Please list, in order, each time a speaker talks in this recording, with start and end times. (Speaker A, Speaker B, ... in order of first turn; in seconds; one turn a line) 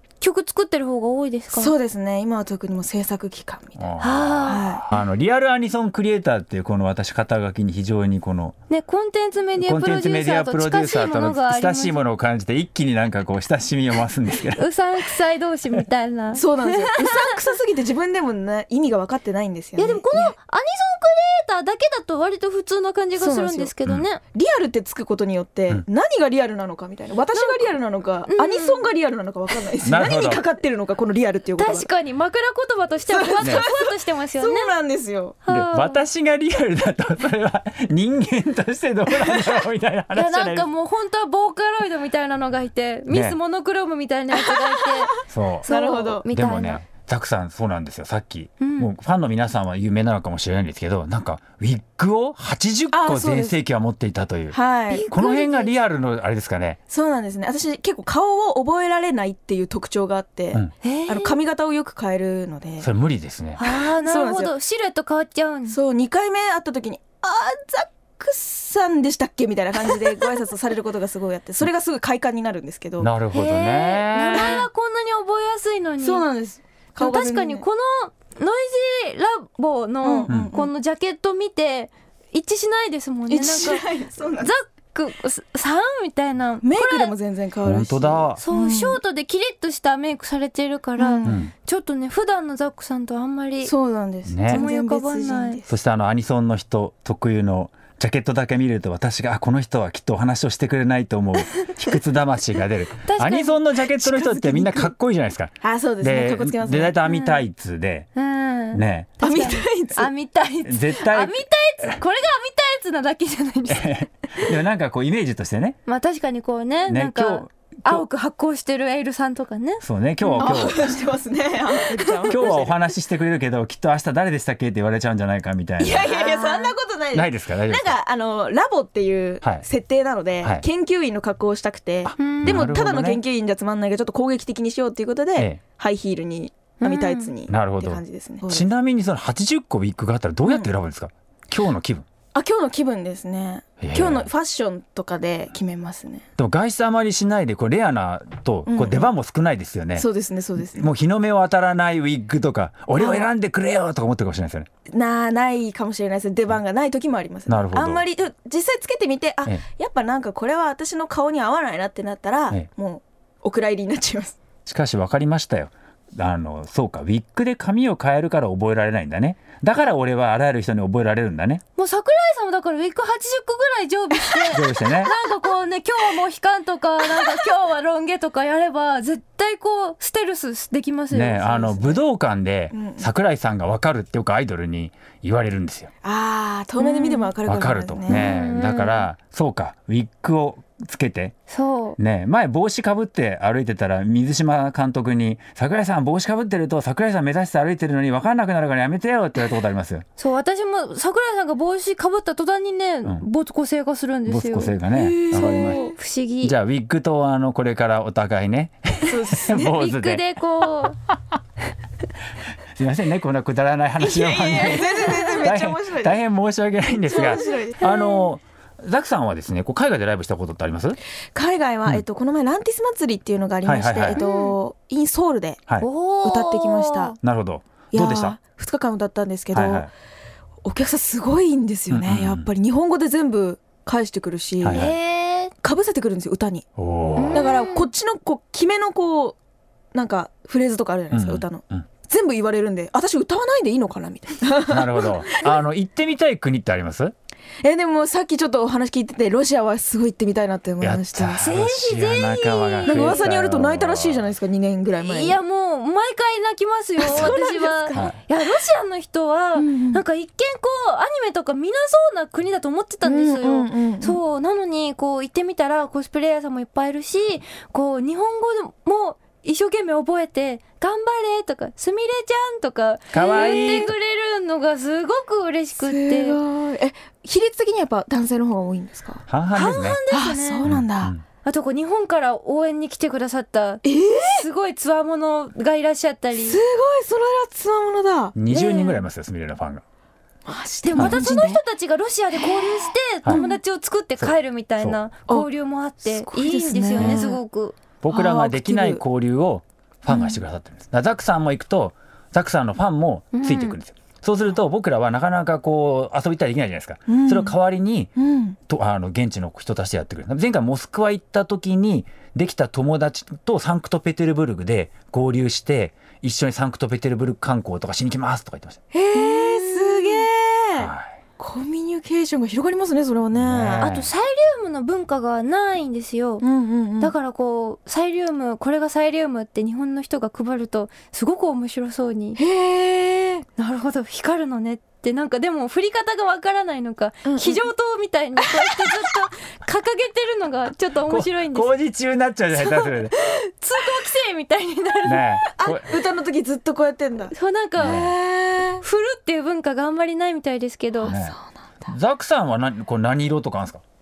Speaker A: 0.2-1.7
Speaker B: 1.5-4.8
Speaker C: 3.8-8.6
Speaker A: 4.0-4.6
Speaker A: 8.7-12.0
Speaker C: 9.6-14.7
Speaker A: 14.6-17.2
Speaker B: 16.3-20.3
Speaker A: 19.8-24.2
Speaker B: 23.2-31.9
Speaker A: 27.3-27.7
Speaker A: 28.3-28.9
Speaker C: 29.8-30.4
Speaker A: 31.6-34.7
Speaker B: 33.1-35.4
Speaker A: 35.4-36.0
Speaker C: 35.5-40.7
Speaker B: 39.2-39.5
Speaker A: 40.1-45.1
Speaker C: 43.1-43.4
Speaker B: 44.3-46.2
Speaker C: 45.3-45.7
Speaker A: 45.6-46.8
Speaker C: 46.2-54.6
Speaker A: 48.6-48.9
Speaker B: 52.9-53.6
Speaker B: 54.5-55.1
Speaker A: 54.9-55.7
Speaker C: 55.1-56.8
Speaker B: 56.9-62.9
Speaker A: 60.8-61.4
Speaker C: 62.8-63.6
Speaker A: 63.6-65.8
Speaker B: 63.6-64.5
Speaker B: 65.7-73.1
Speaker C: 73.0-74.7
Speaker A: 73.3-76.2
Speaker B: 76.0-77.6
Speaker A: 77.0-83.8
Speaker B: 80.0-80.7
Speaker B: 83.3-84.5
Speaker A: 84.4-87.1
Speaker B: 86.6-89.0
Speaker C: 87.6-88.4
Speaker A: 88.4-93.7
Speaker B: 91.0-91.4
Speaker C: 91.2-91.5
Speaker B: 93.6-95.7
Speaker C: 94.2-94.6
Speaker A: 94.5-95.6
Speaker C: 95.7-108.1
Speaker A: 103.0-103.6
Speaker B: 104.0-104.9
Speaker B: 105.6-107.0
Speaker A: 107.0-107.4
Speaker A: 108.1-114.0
Speaker C: 108.7-109.2
Speaker B: 109.2-110.1
Speaker C: 110.6-111.3
Speaker C: 113.7-115.8
Speaker A: 115.8-120.7
Speaker C: 116.9-118.0
Speaker C: 119.8-121.0
Speaker B: 120.3-122.7
Speaker A: 121.9-122.7
Speaker C: 122.0-126.2
Speaker B: 125.8-138.7
Speaker A: 126.1-126.7
Speaker C: 127.1-127.9
Speaker C: 132.1-133.2
Speaker A: 132.2-132.7
Speaker A: 136.8-137.3
Speaker C: 137.5-142.1
Speaker B: 142.3-146.3
Speaker C: 143.8-144.3
Speaker C: 146.4-150.1
Speaker B: 148.7-149.1
Speaker B: 149.9-150.9
Speaker C: 150.7-154.7
Speaker B: 152.9-153.3
Speaker B: 154.9-164.4
Speaker C: 157.5-158.0
Speaker C: 164.7-171.6
Speaker A: 171.8-181.9
Speaker B: 174.4-175.1
Speaker C: 174.5-175.1
Speaker C: 181.1-185.9
Speaker B: 182.7-183.1
Speaker B: 186.0-188.3
Speaker A: 186.8-187.3
Speaker C: 187.4-191.3
Speaker A: 188.1-189.1
Speaker A: 191.5-192.0
Speaker C: 192.0-200.0
Speaker A: 200.2-206.5
Speaker C: 204.3-205.9
Speaker B: 204.9-205.9
Speaker C: 206.4-210.2
Speaker B: 209.0-209.7
Speaker A: 209.6-211.0
Speaker C: 212.7-221.0
Speaker B: 214.0-216.2
Speaker B: 216.9-217.9
Speaker A: 217.8-218.3
Speaker B: 221.3-225.6
Speaker C: 223.6-224.2
Speaker A: 224.2-224.6
Speaker A: 225.8-227.2
Speaker B: 226.2-227.2
Speaker C: 227.2-228.4
Speaker B: 227.9-229.9
Speaker C: 229.5-229.9
Speaker B: 230.6-234.9
Speaker C: 231.9-232.5
Speaker C: 234.6-234.9
Speaker A: 234.7-235.5
Speaker B: 235.6-236.7
Speaker C: 236.8-237.5
Speaker A: 237.1-237.9
Speaker B: 237.3-239.4
Speaker B: 239.9-245.5
Speaker C: 241.1-241.9
Speaker C: 244.7-247.1
Speaker B: 247.6-251.4
Speaker C: 250.8-254.3
Speaker A: 251.4-253.2
Speaker B: 252.8-255.4
Speaker A: 255.0-276.4
Speaker B: 257.0-258.1
Speaker B: 259.6-260.0
Speaker B: 263.0-264.2
Speaker C: 273.1-273.9
Speaker B: 273.4-273.6
Speaker B: 275.8-279.2
Speaker C: 279.3-280.0
Speaker A: 279.5-280.6
Speaker B: 280.1-281.1
Speaker C: 280.6-281.2
Speaker A: 281.4-286.6
Speaker B: 283.8-284.5
Speaker B: 286.4-289.0
Speaker C: 288.3-289.8
Speaker B: 290.4-291.6
Speaker A: 290.8-297.7
Speaker B: 292.4-293.5
Speaker C: 294.2-295.0
Speaker B: 296.0-297.4
Speaker C: 297.0-297.2
Speaker C: 298.0-308.1
Speaker B: 298.1-299.0
Speaker B: 300.1-300.4
Speaker A: 303.3-303.8
Speaker B: 307.1-307.5
Speaker B: 308.2-308.6
Speaker C: 308.7-318.8
Speaker B: 318.9-323.9
Speaker A: 319.1-320.3
Speaker C: 320.8-321.1
Speaker C: 323.3-324.1
Speaker A: 323.8-326.4
Speaker B: 326.4-327.1
Speaker A: 327.0-332.4
Speaker B: 332.4-333.4
Speaker A: 333.6-341.7
Speaker B: 337.2-337.6
Speaker B: 338.6-339.0
Speaker C: 341.1-343.1
Speaker A: 342.6-342.9
Speaker A: 343.5-345.5
Speaker C: 345.0-345.9
Speaker B: 345.5-348.8
Speaker A: 347.3-348.1
Speaker C: 347.8-348.1
Speaker A: 348.8-351.1
Speaker B: 351.0-351.9
Speaker C: 351.0-353.8